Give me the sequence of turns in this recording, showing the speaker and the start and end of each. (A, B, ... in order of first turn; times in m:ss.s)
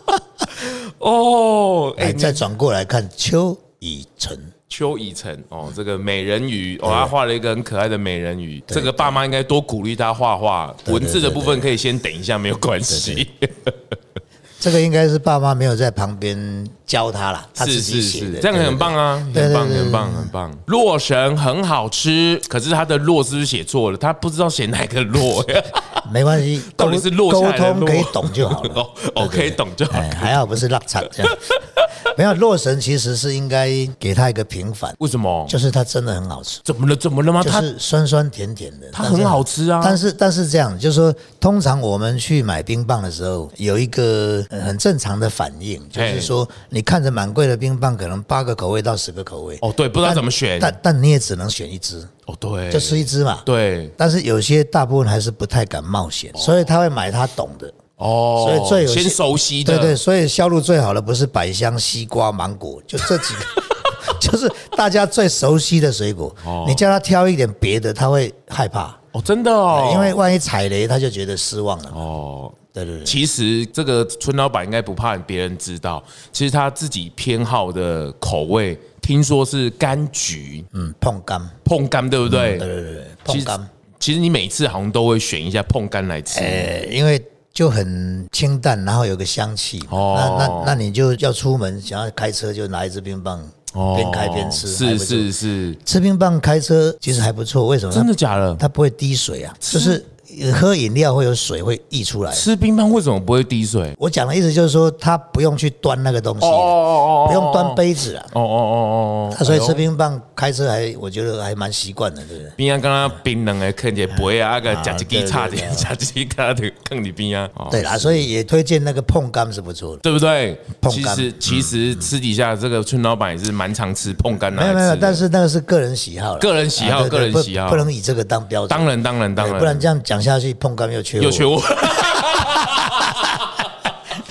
0:00.5-0:02.4 A
0:02.0-0:04.5 B
0:04.7-0:14.0 A
0:06.8-0:07.1 B
0:08.7-0:09.2 B
0:10.8-0:11.7 B
0:12.9-0:13.2 B
0:14.6-0:20.3 B
0:17.6-0:26.0 A
0:26.0-0:31.4 B
0:26.6-0:30.4 A
0:31.2-0:31.9 A
0:32.0-0:35.0 B
0:35.0-0:35.6 A
0:35.5-0:36.6 B
0:36.7-0:37.7 A
0:37.4-0:52.1 B
0:38.9-0:40.0 A
0:46.0-0:46.3 A
0:49.6-0:50.8 A
0:52.3-0:54.0 A
0:52.7-0:53.5 B
0:54.0-0:57.8 B
0:56.3-0:56.7 A
0:58.0-1:00.0 A
0:58.4-1:09.0 B
1:03.2-1:04.0 A
1:06.4-1:06.8 A
1:09.1-1:10.2 A
1:09.7-1:12.0 B
1:11.9-1:20.7 A
1:12.7-1:13.2 B
1:20.7-1:21.5 B
1:21.6-1:22.7 A
1:22.3-1:23.7 B
1:23.3-1:26.7 A
1:26.3-1:35.3 B
1:29.9-1:30.8 A
1:33.7-1:35.8 A
1:35.8-1:42.5 B
1:37.9-1:38.6 A
1:39.6-1:40.0 A
1:42.3-1:44.0 A
1:44.0-1:48.3 B
1:46.4-1:47.8 A
1:48.3-1:49.8 A
1:49.3-1:52.6 B
1:52.6-1:58.3 A
1:54.7-1:55.9 B
1:57.7-2:00.0 B
2:00.0-2:05.2 A
2:00.8-2:01.7 B
2:04.5-2:11.5 B
2:06.4-2:07.9 A
2:08.7-2:09.9 A
2:11.2-2:13.9 A
2:12.1-2:13.2 B